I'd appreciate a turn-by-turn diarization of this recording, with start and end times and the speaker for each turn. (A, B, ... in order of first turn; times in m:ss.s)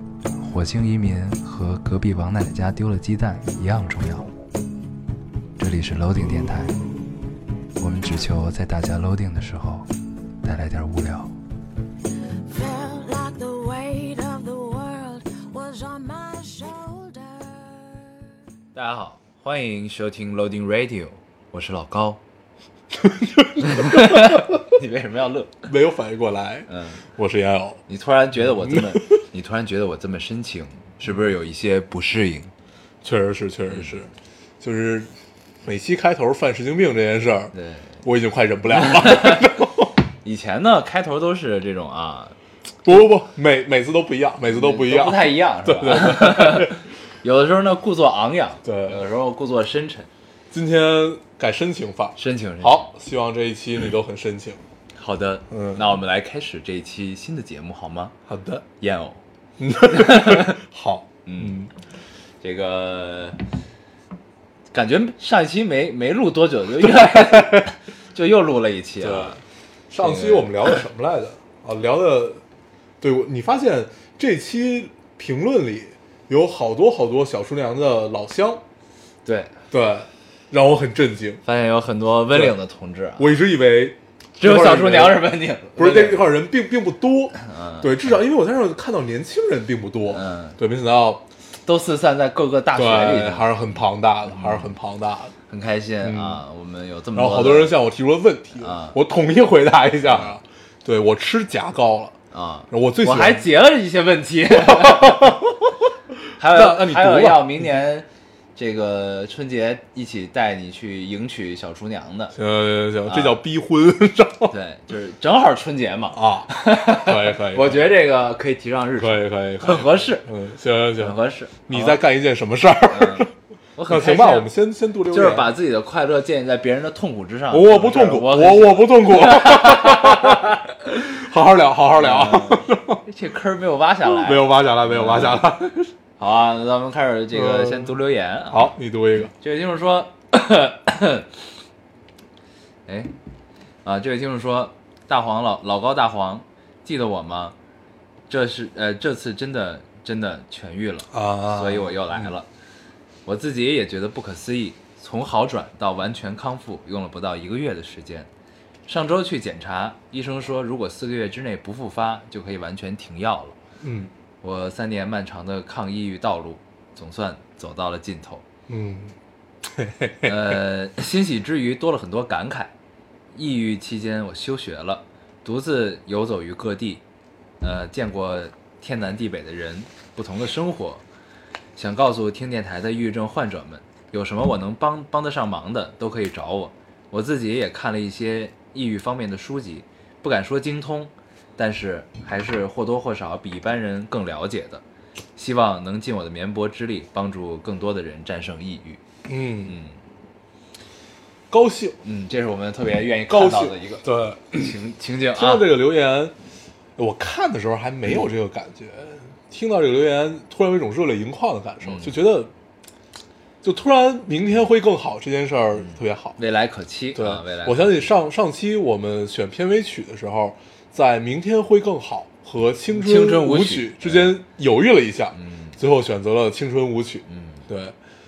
0:00.4-0:04.3 A
0:05.6-0:06.8 A
0:07.8-0:09.9 A
0:10.4-0:11.3 A
0:12.4-0:18.1 B
0:18.7-0:22.2 A
0:22.9-0:24.6 C
0:23.6-0:25.7 A
0:25.7-0:27.8 C
0:26.7-0:27.0 A
0:27.9-0:32.5 A
0:28.6-0:29.0 C
0:33.0-0:34.1 C
0:33.7-0:34.0 A
0:34.6-0:35.1 C
0:35.6-0:39.9 C
0:37.5-0:38.0 A
0:38.7-0:39.4 A
0:40.2-0:42.3 A
0:42.8-0:46.8 C
0:44.5-0:50.1 A
0:48.6-0:49.0 C
0:50.5-0:54.6 C
0:52.2-0:52.9 A
0:55.0-0:58.1 A
0:55.5-0:55.8 C
0:58.3-0:58.6 C
0:58.8-0:59.2 A
0:59.6-1:01.7 C
0:59.9-1:00.6 A
1:01.2-1:01.6 A
1:02.4-1:03.4 A
1:04.7-1:09.4 A
1:06.8-1:07.7 C
1:09.0-1:09.4 C
1:09.9-1:12.4 C
1:10.0-1:10.8 A
1:13.0-1:18.6 C
1:19.2-1:19.5 A
1:19.7-1:21.4 C
1:21.4-1:23.4 A
1:22.3-1:22.6 C
1:23.2-1:31.2 C
1:24.4-1:26.3 A
1:27.4-1:28.1 A
1:30.1-1:30.6 A
1:31.6-1:34.7 A
1:32.7-1:35.3 C
1:35.5-1:37.7 A
1:36.0-1:36.4 C
1:37.1-1:42.1 C
1:38.6-1:39.0 A
1:40.0-1:40.3 A
1:42.3-1:45.4 A
1:42.7-1:43.5 C
1:44.6-1:45.7 C
1:46.4-1:52.3 A
1:46.4-1:47.8 C
1:52.3-1:54.5 C
1:53.1-1:53.4 A
1:54.5-2:00.2 A
1:56.1-1:57.8 C
1:59.0-2:01.2 C
2:01.0-2:02.0 A
2:01.7-2:03.3 C
2:02.9-2:04.5 A
2:03.9-2:05.5 C
2:05.1-2:10.6 A
2:07.5-2:13.0 C
2:11.9-2:15.4 A
2:14.0-2:15.9 C
2:16.2-2:18.7 A
2:17.3-2:17.9 C
2:18.5-2:19.3 C
2:19.4-2:21.3 A
2:22.8-2:23.1 A
2:23.8-2:27.5 A
2:28.3-2:32.5 A
2:31.1-2:32.2 C
2:33.2-2:38.3 A
2:38.9-2:43.6 A
2:43.8-2:44.1 C
2:44.4-2:48.4 A
2:48.7-2:49.1 C
2:49.7-2:50.6 C
2:50.2-2:52.7 A
2:53.3-2:57.0 A
2:57.6-3:01.0 A
3:01.8-3:14.8 A
3:15.4-3:19.0 A
3:19.2-3:19.8 C
3:19.7-3:20.0 A
3:21.5-3:22.0 C
3:22.0-3:25.7 A
3:23.3-3:24.7 C
3:25.3-3:26.3 C
3:27.0-3:32.5 C
3:31.8-3:32.2 A
3:33.6-3:36.4 C
3:35.8-3:38.1 A
3:37.1-3:47.9 C
3:42.9-3:44.3 A
3:45.3-3:45.8 A
3:47.2-3:47.6 A